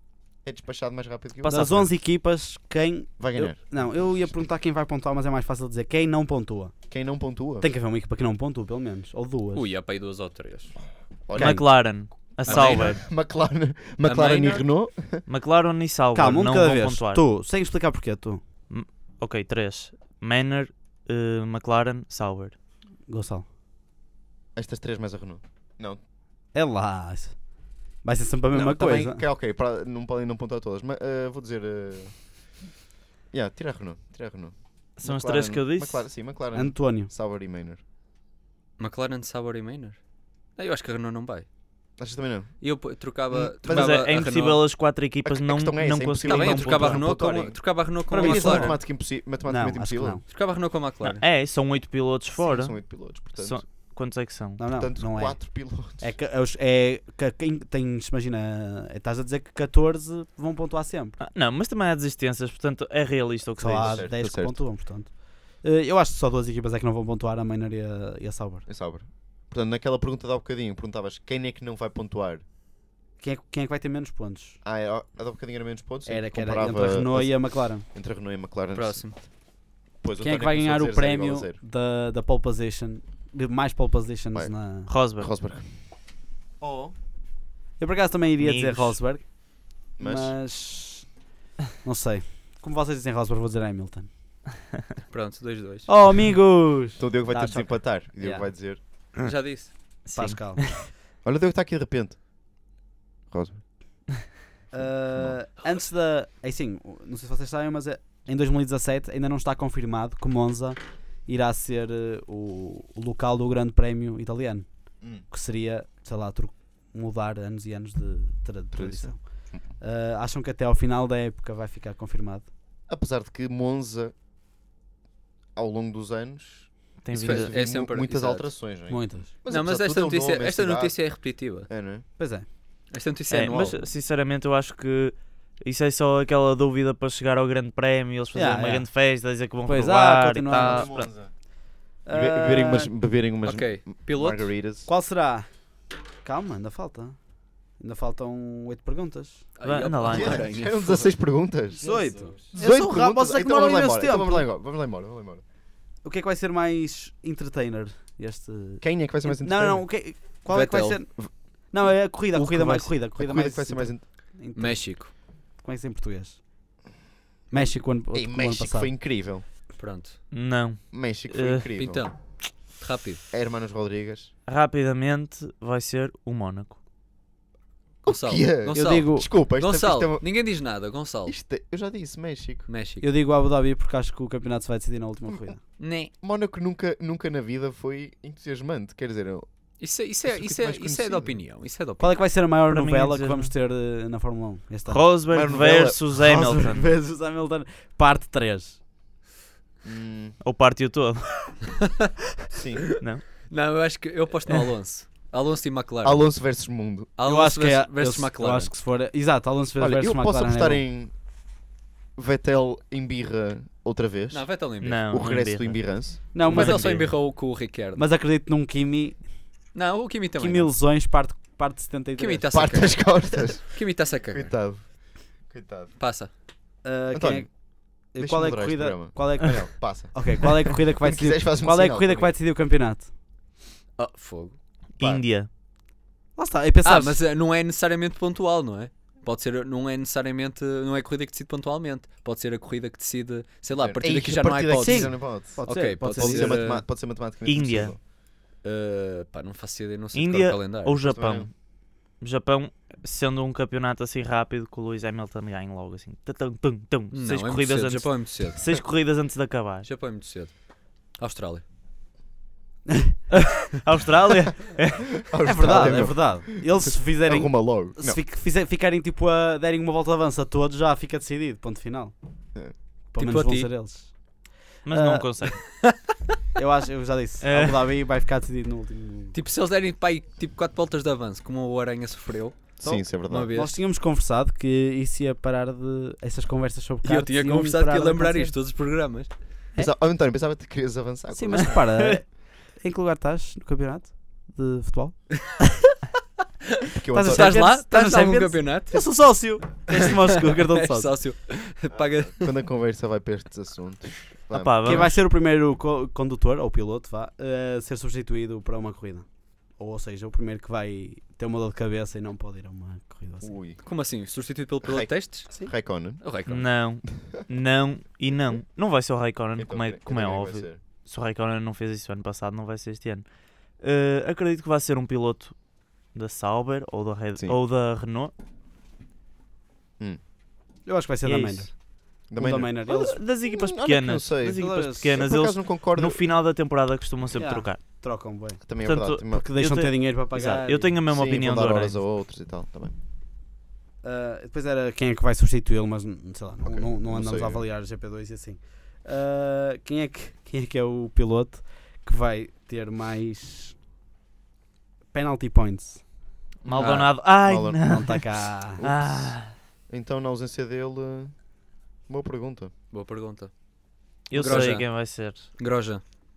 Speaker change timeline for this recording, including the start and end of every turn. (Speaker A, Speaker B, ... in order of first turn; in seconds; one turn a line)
Speaker A: 0.4-1.9
Speaker B: 1.4-1.8
Speaker C: 1.4-6.7
Speaker A: 3.2-3.6
Speaker A: 6.9-7.7
Speaker C: 7.6-9.7
Speaker D: 9.5-10.7
Speaker A: 11.3-11.6
Speaker C: 11.3-11.6
Speaker B: 11.3-13.0
Speaker A: 12.4-15.2
Speaker D: 12.4-13.0
Speaker D: 14.0-14.6
Speaker B: 15.2-17.2
Speaker C: 16.1-18.4
Speaker B: 18.7-22.6
Speaker C: 23.1-23.4
Speaker A: 24.5-26.0
Speaker C: 26.5-27.4
Speaker C: 28.0-29.2
Speaker A: 28.5-32.1
Speaker A: 33.3-37.8
Speaker B: 35.0-36.1
Speaker C: 36.5-37.1
Speaker D: 38.8-40.0
Speaker D: 40.5-41.5
Speaker A: 42.0-42.5
Speaker D: 42.6-44.6
Speaker A: 43.3-44.1
Speaker B: 43.6-47.1
Speaker A: 45.2-50.2
Speaker D: 46.2-48.7
Speaker C: 48.1-48.8
Speaker C: 49.4-50.2
Speaker D: 50.3-51.2
Speaker B: 51.0-52.8
Speaker A: 52.4-53.6
Speaker B: 53.3-54.6
Speaker C: 54.6-61.2
Speaker A: 54.7-56.1
Speaker B: 61.2-64.1
Speaker C: 63.6-68.6
Speaker A: 63.7-64.6
Speaker A: 68.7-72.4
Speaker C: 73.2-74.6
Speaker A: 74.6-79.2
Speaker C: 76.0-77.8
Speaker D: 78.7-79.2
Speaker A: 80.0-81.6
Speaker C: 80.2-84.9
Speaker B: 84.9-85.3
Speaker A: 85.2-85.7
Speaker A: 86.6-86.9
Speaker C: 87.8-89.3
Speaker B: 88.4-89.0
Speaker A: 90.0-90.3
Speaker C: 90.0-91.1
Speaker C: 91.8-94.1
Speaker D: 95.1-95.9
Speaker C: 95.9-98.5
Speaker A: 97.0-98.8
Speaker D: 99.2-99.7
Speaker B: 100.0-100.8
Speaker C: 100.1-100.7
Speaker A: 101.2-102.2
Speaker A: 103.3-103.6
Speaker C: 104.7-114.7
Speaker A: 104.8-105.4
Speaker C: 115.2-119.2
Speaker A: 118.7-119.6
Speaker C: 119.8-122.5
Speaker A: 122.9-124.1
Speaker A: 125.5-131.1
Speaker B: 127.0-127.6
Speaker D: 127.1-128.5
Speaker C: 128.9-129.3
Speaker D: 129.5-131.7
Speaker A: 131.7-132.0
Speaker C: 132.2-132.4
Speaker D: 132.9-133.8
Speaker B: 133.3-141.1
Speaker C: 138.3-138.9
Speaker C: 139.7-140.9
Speaker A: 140.5-141.3
Speaker C: 142.1-142.9
Speaker A: 142.1-144.9
Speaker D: 143.4-144.5
Speaker C: 144.8-145.5
Speaker C: 146.2-147.2
Speaker C: 147.8-149.5
Speaker D: 149.6-151.1
Speaker B: 149.6-150.5
Speaker A: 150.1-151.8
Speaker D: 151.8-152.5
Speaker C: 151.8-154.5
Speaker A: 152.5-155.4
Speaker C: 156.0-166.4
Speaker A: 158.8-159.9
Speaker D: 160.5-161.0
Speaker A: 162.3-164.1
Speaker D: 164.5-165.1
Speaker C: 167.5-168.9
Speaker A: 167.6-169.4
Speaker D: 169.8-170.2
Speaker B: 170.3-171.7
Speaker A: 170.9-172.1
Speaker D: 171.8-173.2
Speaker A: 173.3-174.3
Speaker B: 174.5-176.8
Speaker A: 178.0-180.2
Speaker D: 178.0-181.3
Speaker C: 178.7-179.3
Speaker A: 181.2-182.7
Speaker D: 182.7-183.1
Speaker C: 183.0-185.6
Speaker A: 185.3-185.6
Speaker D: 185.8-186.1
Speaker A: 186.1-189.5
Speaker D: 189.8-192.2
Speaker A: 190.2-191.4
Speaker C: 192.0-195.0
Speaker B: 192.7-193.5
Speaker B: 194.9-196.9
Speaker A: 195.3-196.2
Speaker C: 196.2-198.8
Speaker A: 199.8-200.4
Speaker B: 200.4-201.7
Speaker A: 202.5-203.0
Speaker B: 203.0-203.2
Speaker D: 203.5-206.3
Speaker A: 206.0-207.1
Speaker D: 207.2-208.7
Speaker C: 207.2-210.8
Speaker A: 209.8-211.1
Speaker A: 212.2-217.1
Speaker D: 214.3-215.0
Speaker B: 214.8-217.0
Speaker C: 216.3-217.2
Speaker D: 216.4-218.0
Speaker C: 217.9-219.2
Speaker D: 219.7-220.7
Speaker C: 220.4-222.6
Speaker D: 222.2-224.5
Speaker A: 222.5-225.9
Speaker D: 226.0-226.3
Speaker C: 226.8-227.5
Speaker A: 227.1-227.5
Speaker C: 228.1-233.1
Speaker A: 228.1-232.3
Speaker D: 234.0-234.6
Speaker B: 235.0-235.5
Speaker C: 236.3-237.2
Speaker D: 236.8-246.8
Speaker A: 243.7-248.0
Speaker C: 244.7-246.6
Speaker B: 247.4-247.9
Speaker D: 248.6-251.0
Speaker B: 250.1-251.5
Speaker A: 251.1-251.5
Speaker B: 252.2-259.9
Speaker D: 257.1-258.6
Speaker D: 259.8-260.6
Speaker D: 261.1-261.6
Speaker C: 262.9-263.1
Speaker B: 263.7-266.0
Speaker A: 265.2-268.2
Speaker C: 265.4-272.1
Speaker C: 273.1-274.3
Speaker D: 273.2-273.7
Speaker B: 274.8-275.6
Speaker C: 274.9-275.3
Speaker D: 275.6-275.9
Speaker C: 276.6-279.4
Speaker B: 277.4-277.8
Speaker D: 279.3-283.8
Speaker C: 282.8-288.5
Speaker A: 282.8-283.5
Speaker D: 287.0-289.3
Speaker A: 289.8-291.9
Speaker C: 291.3-295.4
Speaker A: 296.9-297.7
Speaker C: 297.1-301.1
Speaker D: 297.3-299.2
Speaker D: 299.9-302.5
Speaker A: 301.9-305.1
Speaker B: 304.5-305.2
Speaker C: 304.8-313.5
Speaker A: 313.4-313.8
Speaker D: 313.8-315.5
Speaker A: 314.8-316.2
Speaker D: 316.2-316.6
Speaker B: 316.5-323.2
Speaker A: 319.6-320.8
Speaker B: 323.8-325.5
Speaker B: 326.1-328.3
Speaker C: 330.9-331.8
Speaker B: 331.2-331.7
Speaker A: 332.3-336.2
Speaker C: 332.3-333.2
Speaker B: 332.9-337.8
Speaker C: 334.6-335.1
Speaker C: 337.4-338.6
Speaker A: 338.6-339.4
Speaker B: 338.8-342.0
Speaker C: 339.3-340.9
Speaker A: 341.1-342.9
Speaker C: 344.0-353.8
Speaker A: 346.6-347.6
Speaker C: 355.1-356.0
Speaker A: 356.6-357.9
Speaker B: 356.6-358.2
Speaker D: 356.8-357.1
Speaker C: 357.8-358.8
Speaker A: 358.8-359.4
Speaker B: 358.8-359.5
Speaker A: 359.9-361.4
Speaker A: 362.1-362.7
Speaker D: 362.9-363.5
Speaker B: 364.3-365.5
Speaker D: 364.3-364.9
Speaker D: 365.6-366.0